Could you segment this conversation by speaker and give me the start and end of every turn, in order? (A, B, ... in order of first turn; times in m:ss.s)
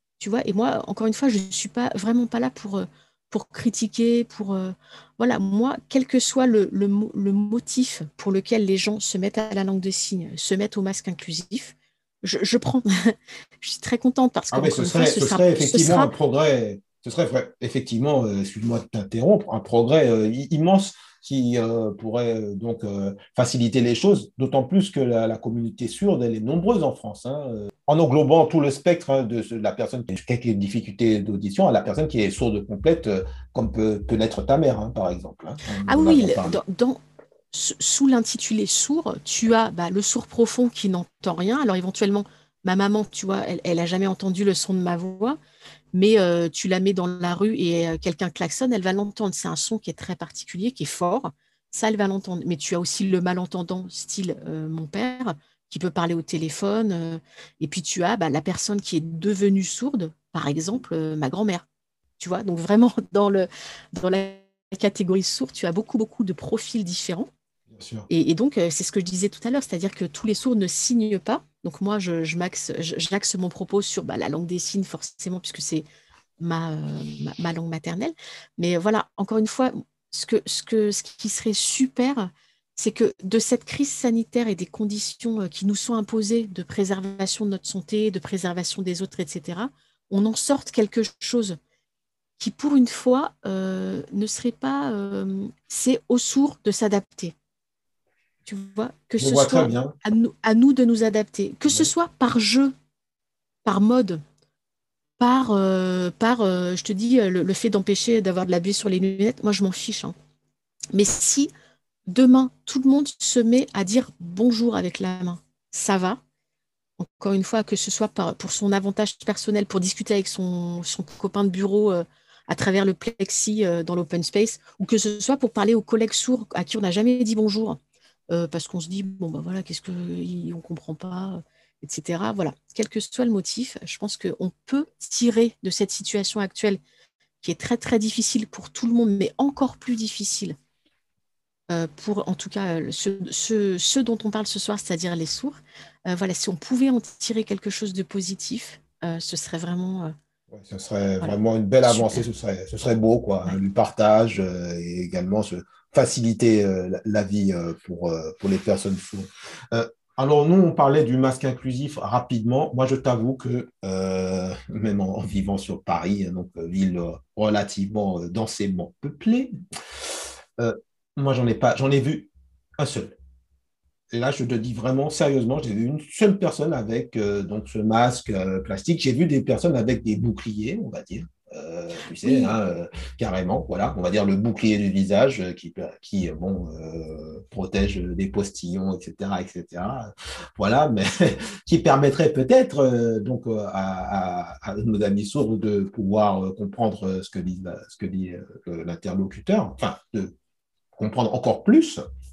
0:00.2-0:16.1 A
0:14.5-0:36.6 B
0:35.9-0:37.0 A
0:37.5-0:45.4 A
0:45.9-1:01.6 A
1:02.2-1:07.3 A
1:07.7-1:08.1 B
1:08.1-1:15.8 A
1:16.4-1:31.6 A
1:32.4-1:37.3 A
1:38.5-1:42.7 A
1:39.2-1:40.0 B
1:43.6-1:44.2 A
1:45.2-1:50.2 A
1:50.9-1:51.5 A
1:52.1-1:56.2 A
1:57.0-2:07.8 A
2:08.3-2:16.8 A
2:17.4-2:20.6 A
2:21.7-2:30.1 A
2:30.5-2:49.5 B
2:31.2-2:32.3 A
2:50.6-2:53.2 B
2:54.1-3:20.4 B
3:02.1-3:02.6 A
3:20.9-3:22.0 B